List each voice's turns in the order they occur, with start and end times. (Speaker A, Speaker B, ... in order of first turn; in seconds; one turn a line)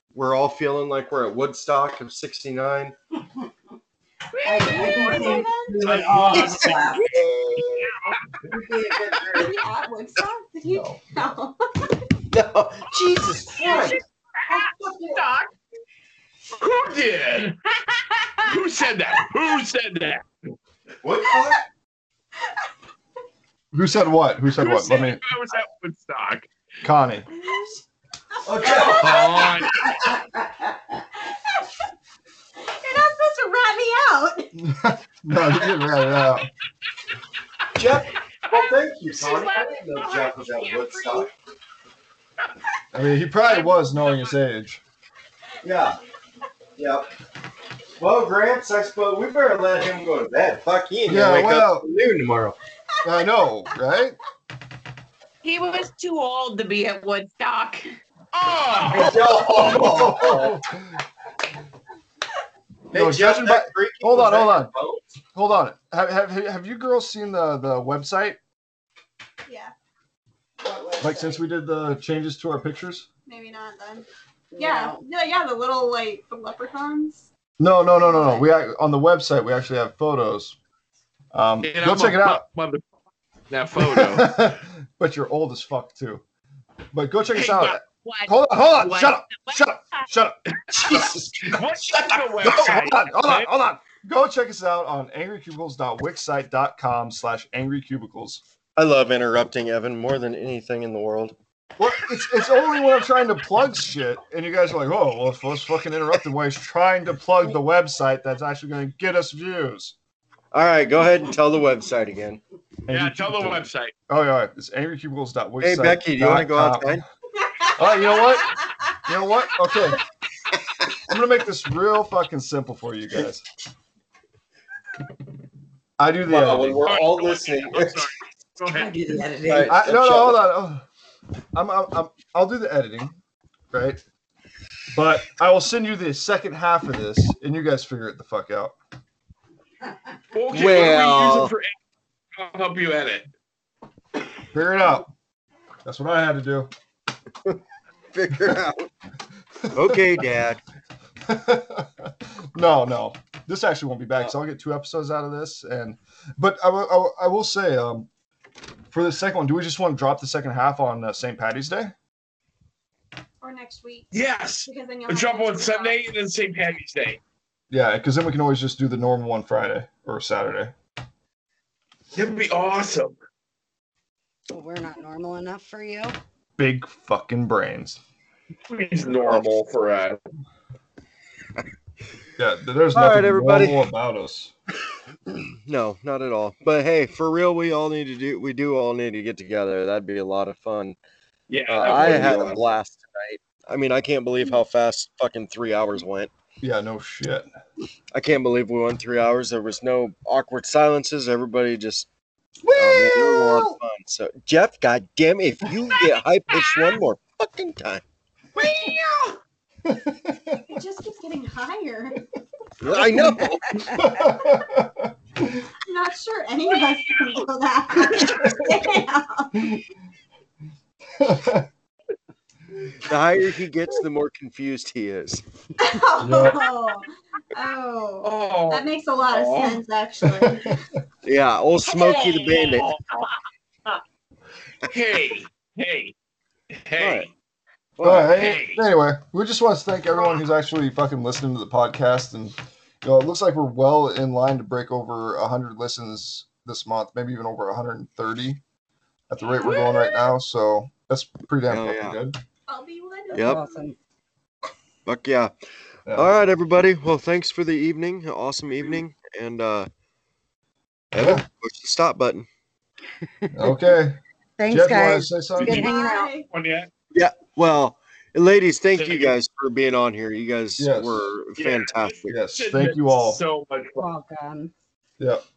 Speaker A: 0.1-3.0
Speaker B: 4.4-5.4
Speaker C: 4.5-7.0
Speaker D: 4.5-7.0
Speaker E: 4.7-7.0
Speaker A: 6.7-7.8
Speaker E: 7.7-8.2
Speaker B: 7.8-8.2
Speaker C: 8.5-9.5
Speaker A: 9.1-9.4
Speaker D: 9.3-11.9
Speaker A: 12.3-14.0
Speaker B: 13.6-15.5
Speaker E: 16.6-17.6
Speaker B: 17.8-18.5
Speaker E: 18.4-20.2
Speaker A: 21.0-21.7
Speaker F: 23.7-25.2
Speaker E: 24.6-26.5
Speaker F: 26.8-27.3
Speaker D: 27.3-27.8
Speaker A: 28.4-29.7
Speaker D: 28.5-29.6
Speaker C: 28.6-29.0
Speaker E: 28.8-29.9
Speaker C: 30.0-30.7
Speaker D: 32.7-34.5
Speaker F: 34.6-36.5
Speaker A: 37.8-41.3
Speaker B: 39.2-41.2
Speaker F: 42.9-44.8
Speaker E: 43.5-44.3
Speaker A: 45.6-46.0
Speaker A: 46.8-47.1
Speaker A: 48.0-52.6
Speaker F: 51.1-51.9
Speaker D: 53.0-53.6
Speaker F: 53.0-54.2
Speaker B: 55.4-57.9
Speaker E: 58.3-60.2
Speaker A: 58.9-60.6
Speaker F: 59.6-61.0
Speaker A: 62.9-65.2
Speaker F: 62.9-64.7
Speaker F: 65.3-68.4
Speaker D: 69.5-69.7
Speaker C: 70.6-71.4
Speaker F: 71.0-73.1
Speaker D: 73.3-77.3
Speaker C: 74.5-75.0
Speaker F: 77.6-80.6
Speaker C: 78.0-78.4
Speaker F: 81.3-82.4
Speaker E: 81.6-82.8
Speaker E: 83.5-84.3
Speaker F: 83.8-86.2
Speaker F: 86.9-91.1
Speaker E: 87.3-87.8
Speaker B: 87.9-90.0
Speaker A: 90.7-92.7
Speaker E: 90.9-93.5
Speaker F: 92.4-98.4
Speaker A: 98.8-101.3
Speaker F: 101.8-110.0
Speaker A: 110.5-112.4
Speaker F: 112.9-117.0
Speaker E: 112.9-113.9
Speaker A: 115.6-117.0
Speaker D: 117.6-118.6
Speaker F: 117.7-120.0
Speaker F: 121.1-123.5
Speaker F: 126.0-127.0
Speaker A: 126.3-128.1
Speaker E: 126.8-128.9
Speaker C: 128.6-129.8
Speaker A: 129.5-130.4
Speaker F: 129.7-130.9
Speaker F: 131.6-133.2
Speaker F: 133.7-134.0
Speaker F: 134.9-138.7
Speaker E: 140.3-141.7
Speaker A: 140.5-141.5
Speaker E: 142.4-143.3
Speaker F: 144.5-145.1
Speaker F: 145.8-146.7
Speaker A: 148.1-148.9
Speaker F: 148.3-148.6
Speaker F: 149.6-150.3
Speaker A: 149.7-150.6
Speaker F: 151.2-158.1
Speaker F: 158.9-161.9
Speaker D: 163.4-164.2
Speaker E: 164.1-167.2
Speaker D: 164.7-166.0
Speaker F: 167.7-170.7
Speaker E: 172.1-173.2
Speaker C: 174.5-176.2
Speaker F: 176.6-178.0
Speaker E: 178.7-180.2
Speaker F: 182.4-184.5
Speaker A: 182.9-183.8
Speaker A: 185.7-191.0
Speaker E: 191.5-192.6
Speaker A: 191.7-196.3
Speaker F: 191.8-192.6
Speaker F: 196.6-197.5
Speaker A: 198.1-202.1
Speaker F: 202.6-203.8
Speaker A: 202.8-208.0
Speaker E: 206.5-207.0
Speaker E: 208.6-209.4
Speaker F: 209.8-210.6
Speaker D: 210.7-212.2
Speaker A: 212.8-214.0
Speaker E: 212.9-213.4
Speaker F: 214.0-215.1
Speaker D: 215.9-219.8
Speaker E: 216.7-218.9
Speaker F: 221.2-221.7
Speaker A: 223.0-225.4
Speaker D: 225.8-230.8
Speaker F: 226.2-226.6
Speaker E: 228.2-229.8
Speaker F: 230.4-230.8
Speaker A: 231.2-232.9
Speaker E: 231.8-234.0
Speaker E: 234.8-236.1
Speaker E: 236.7-237.3
Speaker A: 237.0-237.3
Speaker A: 238.0-238.4
Speaker F: 238.0-248.6
Speaker E: 238.3-238.8
Speaker F: 249.3-252.4
Speaker D: 249.6-250.0
Speaker E: 249.6-250.0
Speaker A: 251.7-252.2
Speaker D: 252.7-253.9
Speaker C: 253.3-254.0
Speaker A: 253.3-253.6
Speaker A: 255.1-255.5
Speaker F: 256.1-256.3
Speaker A: 256.1-259.9
Speaker A: 261.1-262.5
Speaker F: 261.2-261.4
Speaker F: 263.5-265.9
Speaker C: 264.6-266.3
Speaker E: 265.6-265.9
Speaker D: 265.6-266.5
Speaker E: 266.5-266.9
Speaker A: 267.1-272.4
Speaker E: 269.0-269.3
Speaker F: 270.8-271.3
Speaker E: 271.6-274.0
Speaker F: 272.3-273.4
Speaker C: 274.0-274.7